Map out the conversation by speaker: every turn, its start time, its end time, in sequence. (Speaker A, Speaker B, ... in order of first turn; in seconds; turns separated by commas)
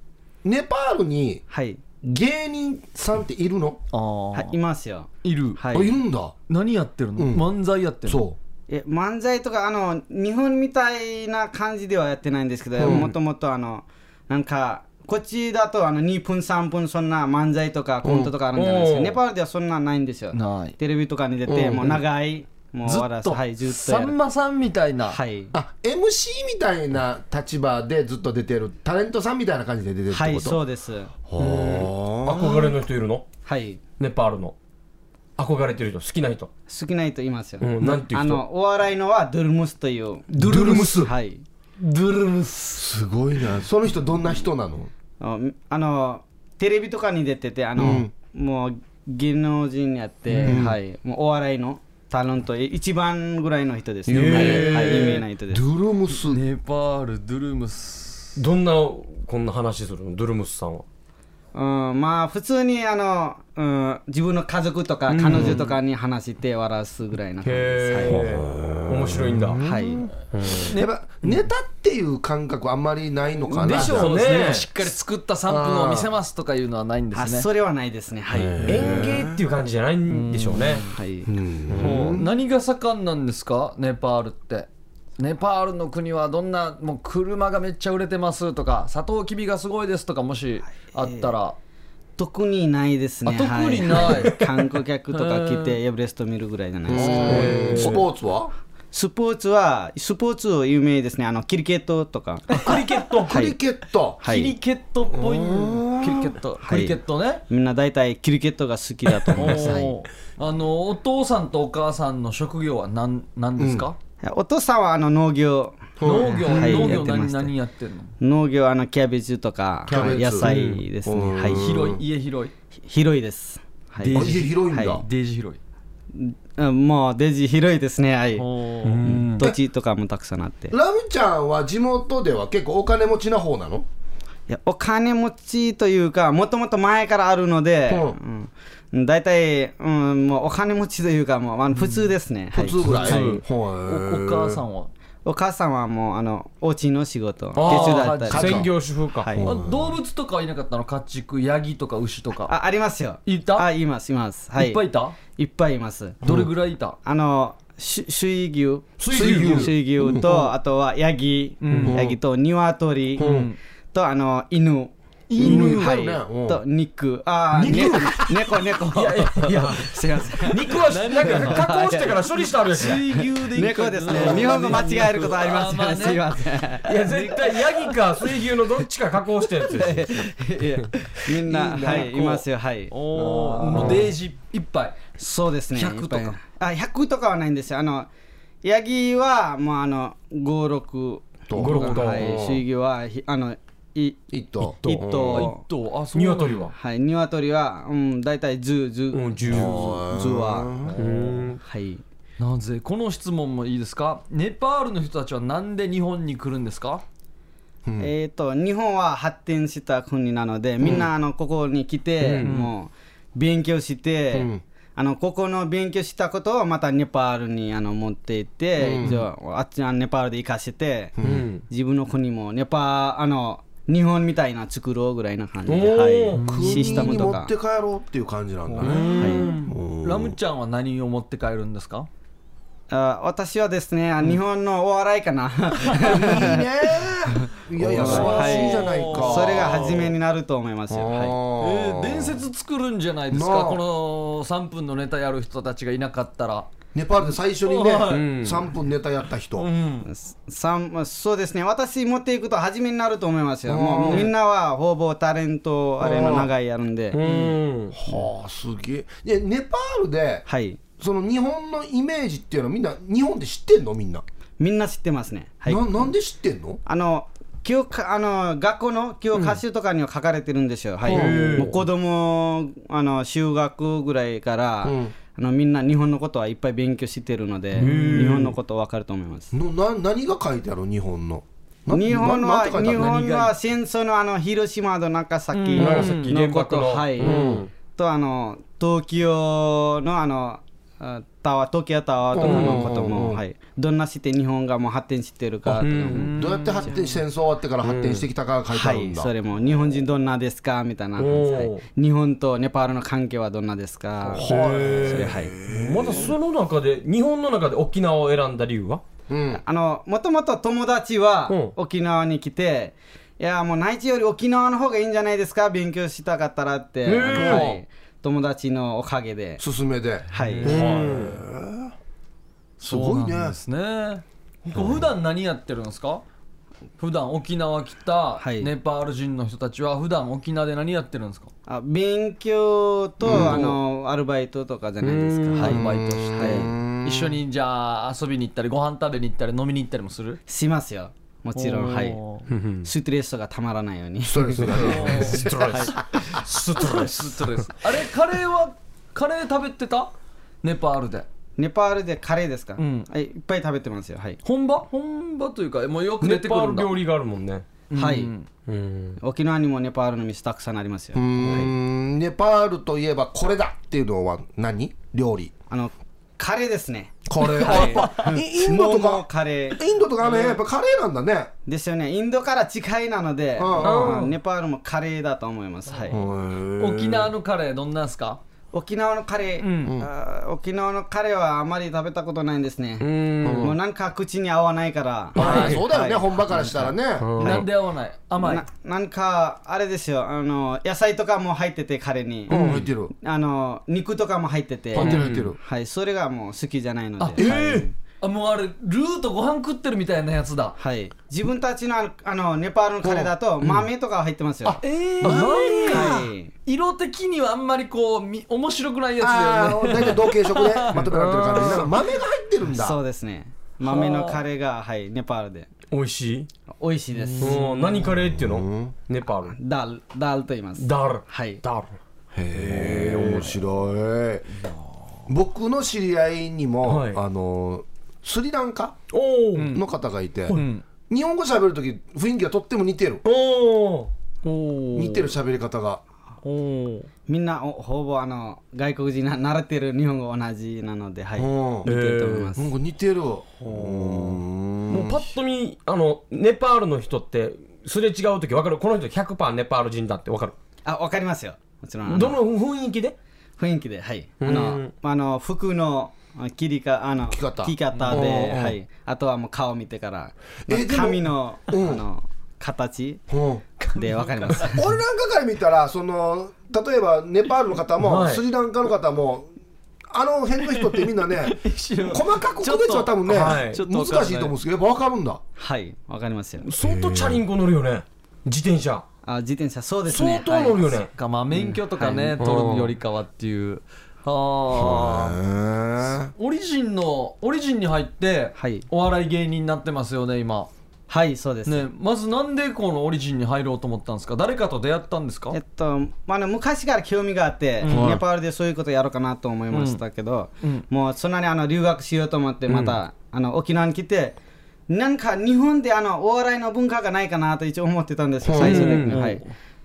Speaker A: 0.4-1.4, Speaker B: 1.5-1.8, Speaker A: 2.0-3.8, Speaker C: 3.9-4.5, Speaker B: 4.3-6.0, Speaker C: 5.2-5.6, Speaker A: 5.7-6.3, Speaker C: 6.5-8.2, Speaker A: 7.2-7.5, Speaker A: 8.1-8.4, Speaker B: 8.7-24.1, Speaker A: 12.8-13.1, Speaker D: 12.8-13.1, Speaker A: 18.0-18.3, Speaker D: 18.5-19.2, Speaker C: 20.3-20.7, Speaker A: 21.5-22.0, Speaker C: 22.8-25.2, Speaker B: 25.1-25.5, Speaker A: 25.5-30.6, Speaker B: 30.1-31.1, Speaker A: 31.3-32.7, Speaker D: 31.4-33.2, Speaker B: 33.4-33.8, Speaker D: 34.0-34.5, Speaker D: 35.4-36.5, Speaker B: 36.7-41.4, Speaker D: 37.6-38.4, Speaker D: 40.3-41.0, Speaker A: 40.4-41.1, Speaker D: 41.8-42.8, Speaker A: 42.8-44.9, Speaker B: 45.2-55.6, Speaker A: 47.8-48.1, Speaker A: 50.4-50.8, Speaker A: 54.1-56.4, Speaker D: 54.1-55.2, Speaker C: 56.1-58.4, Speaker D: 58.4-60.8, Speaker B: 61.5-68.2, Speaker D: 65.1-65.6, Speaker A: 65.3-65.7, Speaker D: 67.4-69.6, Speaker A: 68.0-74.5, Speaker B: 69.6-70.1, Speaker D: 70.3-70.7, Speaker C: 70.6-71.5, Speaker C: 73.6-77.5, Speaker D: 73.6-74.7, Speaker A: 75.5-76.1, Speaker B: 77.1-78.5, Speaker A: 78.3-79.4, Speaker D: 78.6-80.9, Speaker C: 80.1-81.0, Speaker B: 80.9-81.3, Speaker A: 81.2-82.3, Speaker D: 81.7-82.0, Speaker C: 81.8-91.5, Speaker B: 90.9-91.3, Speaker B: 92.2-97.6, Speaker C: 93.2-94.4, Speaker C: 95.1-95.8, Speaker A: 96.9-98.5, Speaker C: 96.9-97.8, Speaker D: 97.2-98.0, Speaker B: 98.9-102.7, Speaker D: 102.6-103.4, Speaker A: 103.2-104.2, Speaker B: 103.3-103.6, Speaker B: 104.2-104.5, Speaker C: 104.2-107.4, Speaker A: 105.1-106.3, Speaker B: 106.6-107.0, Speaker B: 107.5-109.9, Speaker C: 109.3-114.0, Speaker A: 113.6-113.9, Speaker B: 114.2-117.5, Speaker A: 116.0-117.0, Speaker C: 116.0-118.1, Speaker B: 118.2-121.6, Speaker C: 119.9-120.6, Speaker A: 119.9-122.0, Speaker D: 120.5-120.7, Speaker C: 121.5-122.5, Speaker B: 122.8-125.0, Speaker C: 124.0-125.6, Speaker A: 124.1-125.0, Speaker B: 126.1-128.5, Speaker C: 128.4-129.4, Speaker D: 128.8-129.2, Speaker B: 129.0-130.7, Speaker A: 130.7-133.8, Speaker B: 134.5-143.3, Speaker A: 137.9-138.2, Speaker C: 141.8-142.1, Speaker A: 142.5-144.6, Speaker D: 142.8-143.4, Speaker C: 142.9-144.9, Speaker B: 145.2-149.4, Speaker D: 147.6-149.3, Speaker C: 147.6-148.6, Speaker A: 148.3-148.7, Speaker A: 149.3-149.9, Speaker C: 149.4-152.5, Speaker B: 152.5-156.2, Speaker C: 153.2-153.7, Speaker C: 154.6-155.2, Speaker C: 156.2-157.0, Speaker A: 156.2-156.5, Speaker B: 157.0-163.3, Speaker D: 159.0-159.7, Speaker A: 159.1-160.3, Speaker C: 161.6-162.0, Speaker A: 161.8-162.2, Speaker A: 163.2-163.5, Speaker C: 163.2-163.6, Speaker B: 163.9-172.3, Speaker C: 165.3-165.9, Speaker A: 165.3-166.6, Speaker D: 167.6-168.2, Speaker A: 167.7-168.0, Speaker C: 167.7-168.1, Speaker D: 168.9-173.0, Speaker C: 170.7-171.7, Speaker C: 172.7-176.4, Speaker B: 173.5-177.4, Speaker D: 174.1-174.8, Speaker D: 176.8-180.3, Speaker C: 177.1-177.9, Speaker B: 179.6-182.9, Speaker A: 181.5-182.2, Speaker C: 181.8-185.0, Speaker A: 183.1-184.1, Speaker B: 185.2-188.1, Speaker C: 185.7-186.3, Speaker B: 188.6-194.3, Speaker A: 191.5-192.6, Speaker D: 191.5-192.3, Speaker A: 194.3-195.5, Speaker B: 194.8-195.6, Speaker C: 195.2-196.7, Speaker D: 196.1-196.7, Speaker B: 196.7-200.7, Speaker D: 199.1-199.9, Speaker A: 199.5-200.9, Speaker C: 199.5-200.1, Speaker C: 200.8-201.5, Speaker D: 200.9-201.6, Speaker B: 201.6-202.0, Speaker C: 202.4-207.0, Speaker A: 207.8-208.1, Speaker B: 208.0-221.1, Speaker A: 210.8-211.1, Speaker D: 212.2-212.5, Speaker C: 212.4-212.7, Speaker A: 214.3-214.6, Speaker A: 218.8-219.2, Speaker A: 221.2-221.4, Speaker D: 221.2-221.6, Speaker B: 221.7-227.5, Speaker D: 225.7-226.4, Speaker C: 226.4-227.1, Speaker A: 226.4-230.3, Speaker C: 228.7-232.1, Speaker D: 228.8-229.7, Speaker B: 229.1-229.4, Speaker B: 232.9-236.7, Speaker A: 235.9-240.1, Speaker C: 237.8-239.8, Speaker B: 237.9-241.3, Speaker A: 240.9-242.4, Speaker C: 241.6-246.7, Speaker A: 243.3-243.8, Speaker A: 246.9-249.7, Speaker C: 247.6-248.3, Speaker D: 248.1-248.7, Speaker C: 249.6-250.1, Speaker B: 250.1-257.2, Speaker A: 253.7-254.3, Speaker A: 256.0-256.5, Speaker D: 257.1-257.9, Speaker C: 257.2-257.5, Speaker A: 257.9-260.4, Speaker B: 260.5-260.8, Speaker A: 261.0-264.2, Speaker B: 264.6-266.1, Speaker A: 265.6-266.8, Speaker B: 266.9-279.5, Speaker A: 271.1-271.7, Speaker D: 271.1-271.8, Speaker A: 274.8-275.1, Speaker D: 277.8-278.5, Speaker C: 277.8-278.3, Speaker A: 277.9-278.4, Speaker A: 279.5-283.2, Speaker B: 281.9-296.3, Speaker C: 282.8-283.5, Speaker C: 285.5-286.3, Speaker D: 285.8-287.7, Speaker A: 287.2-287.6, Speaker A: 292.3-293.4, Speaker D: 292.4-292.9, Speaker D: 295.7-296.3, Speaker C: 296.1-297.1, Speaker A: 296.2-299.3, Speaker D: 297.8-298.2, Speaker B: 298.7-305.5, Speaker D: 301.2-301.8, Speaker D: 304.3-309.0, Speaker A: 304.3-306.3, Speaker A: 309.3-309.6, Speaker B: 309.5-319.6, Speaker D: 311.5-311.7, Speaker D: 317.1-317.8, Speaker A: 317.3-317.7, Speaker A: 319.6-321.9, Speaker B: 320.3-320.9, Speaker C: 320.4-320.9, Speaker D: 320.6-321.4, Speaker A: 322.8-323.6, Speaker C: 322.8-326.2, Speaker A: 324.6-325.0, Speaker C: 327.0-331.5, Speaker B: 328.4-328.7, Speaker B: 331.7-335.8, Speaker A: 333.2-333.6, Speaker D: 333.3-333.7, Speaker D: 335.0-335.8, Speaker C: 335.6-340.4, Speaker A: 335.6-337.4, Speaker B: 336.3-336.7, Speaker B: 340.5-342.2, Speaker C: 341.5-342.5, Speaker D: 342.5-342.9, Speaker B: 342.8-346.2, Speaker A: 344.2-345.5, Speaker D: 344.6-347.7, Speaker C: 344.8-345.5, Speaker C: 346.8-350.1, Speaker C: 350.6-351.3, Speaker B: 351.6-354.4, Speaker C: 352.8-353.1, Speaker C: 354.4-357.0, Speaker D: 356.2-357.6, Speaker C: 357.9-358.5, Speaker B: 357.9-358.3, Speaker D: 358.7-359.2, Speaker B: 359.2-361.7, Speaker A: 361.1-365.5, Speaker B: 365.7-369.8, Speaker A: 367.3-371.5, Speaker C: 367.4-368.3, Speaker C: 370.2-370.6, Speaker B: 371.6-376.2, Speaker A: 373.6-374.2, Speaker D: 373.8-374.3, Speaker A: 376.1-377.3, Speaker C: 376.8-378.4, Speaker B: 378.7-387.6, Speaker C: 379.6-379.9, Speaker D: 383.0-383.7, Speaker A: 383.4-383.8, Speaker D: 385.3-385.8, Speaker A: 385.3-387.4, Speaker D: 387.2-387.7, Speaker C: 387.4-388.6, Speaker B: 388.4-397.9, Speaker A: 392.5-393.1, Speaker D: 392.5-392.9, Speaker A: 394.9-395.6, Speaker D: 395.0-395.5, Speaker D: 397.3-397.9, Speaker C: 398.2-400.7, Speaker B: 400.8-404.8, Speaker A: 403.0-403.3, Speaker A: 404.6-406.1, Speaker C: 404.8-411.0, Speaker D: 405.2-406.1, Speaker B: 405.9-406.5, Speaker A: 409.2-413.0, Speaker D: 411.0-411.9, Speaker B: 412.6-415.7, Speaker C: 413.8-414.4, Speaker D: 415.9-416.5, Speaker B: 416.8-417.7, Speaker C: 417.3-417.6, Speaker D: 417.4-419.6, Speaker A: 418.1-418.9, Speaker B: 419.5-421.6, Speaker D: 420.8-421.9, Speaker A: 422.3-424.5, Speaker D: 422.6-423.6, Speaker C: 423.0-423.3, Speaker C: 424.5-424.9, Speaker A: 425.3-429.0, Speaker D: 426.8-427.2, Speaker D: 429.1-429.8, Speaker C: 429.6-429.8, Speaker A: 429.7-433.2, Speaker C: 430.5-430.8, Speaker D: 433.2-434.1, Speaker C: 434.4-435.3, Speaker A: 434.9-436.0, Speaker C: 436.4-437.1, Speaker B: 437.3-442.7, Speaker A: 441.4-441.9, Speaker D: 441.8-442.5, Speaker A: 442.6-445.2, Speaker C: 443.6-444.3, Speaker D: 444.9-450.5, Speaker B: 450.9-452.4, Speaker D: 452.1-453.1, Speaker B: 453.6-463.2, Speaker D: 454.4-454.9, Speaker A: 457.3-458.8, Speaker C: 457.9-458.3, Speaker A: 460.7-462.0, Speaker A: 463.3-463.6, Speaker C: 463.8-464.7, Speaker B: 463.9-464.9, Speaker A: 464.6-469.5, Speaker D: 468.0-468.4, Speaker A: 470.1-475.4, Speaker C: 470.6-474.5, Speaker D: 473.3-473.8, Speaker B: 475.6-476.7, Speaker D: 476.6-479.0, Speaker A: 476.8-477.4, Speaker B: 479.2-481.0, Speaker D: 480.1-481.1, Speaker C: 481.1-485.4, Speaker B: 481.5-482.4, Speaker D: 482.4-482.9, Speaker A: 484.7-486.3, Speaker C: 486.3-490.7, Speaker B: 488.6-488.9, Speaker B: 491.1-491.8, Speaker C: 491.6-495.6, Speaker B: 495.5-504.4, Speaker C: 497.8-498.2, Speaker A: 497.9-498.2, Speaker C: 499.7-500.0, Speaker B: 504.9-509.4, Speaker A: 508.4-508.9, Speaker D: 508.6-509.2, Speaker C: 508.6-509.5